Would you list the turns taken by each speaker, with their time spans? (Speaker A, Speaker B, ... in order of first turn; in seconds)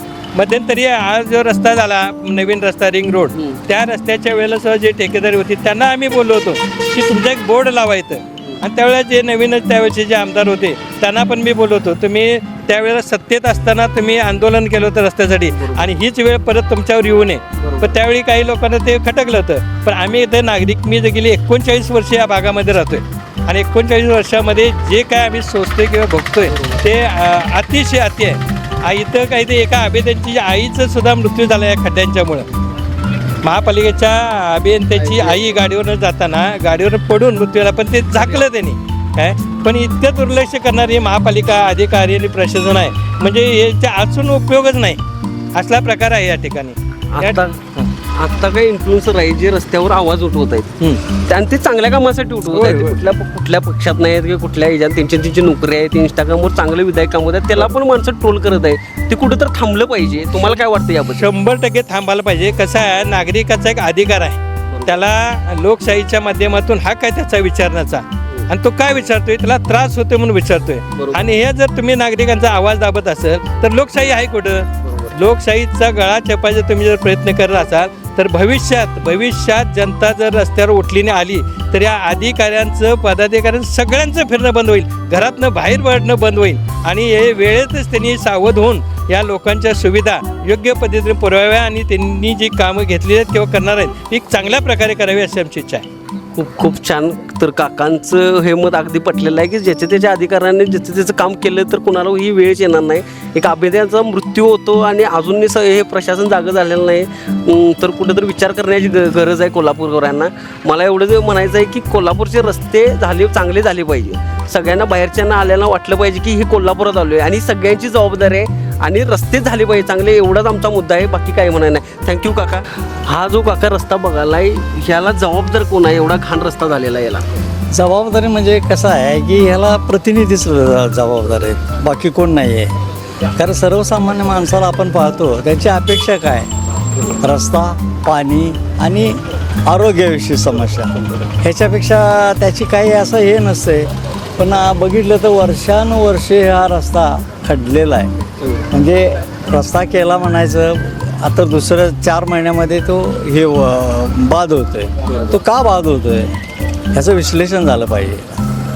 Speaker A: 0.3-32.5, 33.4-45.0, 45.5-47.9, 52.5-53.0, 61.2-95.8
Speaker B: 3.3-3.6, 15.5-15.9, 17.6-17.9, 26.4-26.8, 35.0-35.6, 38.2-38.4, 47.1-47.6, 48.1-61.3, 64.7-65.0, 70.9-71.3, 74.8-75.2, 96.3-127.2, 148.4-148.7, 155.1-155.4
Speaker C: 127.7-132.7, 133.3-136.5, 137.2-148.1, 148.7-156.3, 156.9-158.4